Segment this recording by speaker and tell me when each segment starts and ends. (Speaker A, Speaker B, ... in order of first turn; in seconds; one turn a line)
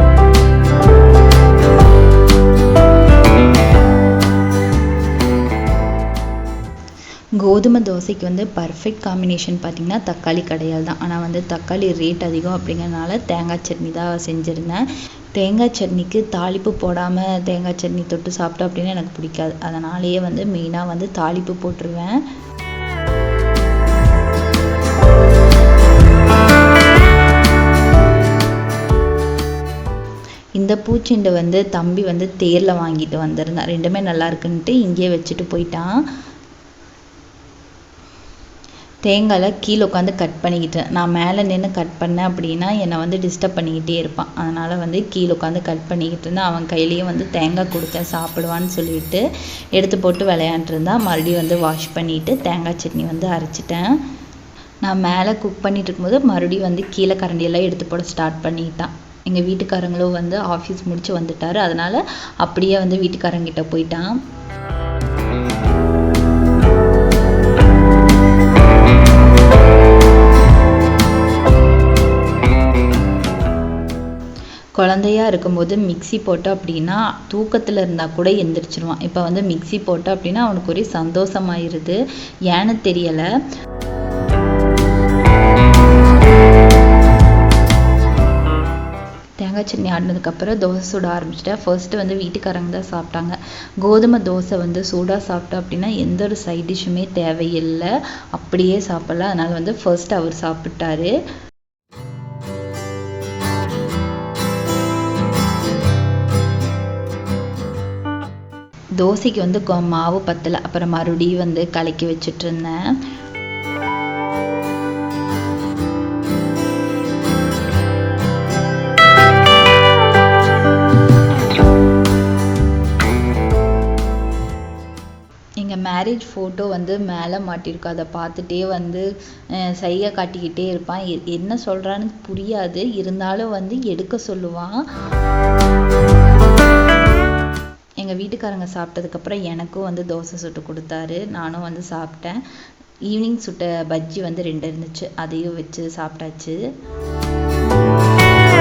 Speaker A: 7.4-14.8
Speaker A: 15.4-22.2
Speaker A: 30.6-35.9
Speaker A: 39.1-49.2
Speaker A: 49.8-53.9
Speaker A: 54.8-64.2
Speaker A: 74.8-83.3
Speaker A: 89.4-101.1
Speaker A: 109.0-112.8
Speaker A: 125.6-134.8
Speaker A: 138.0-142.4
Speaker A: 143.1-146.6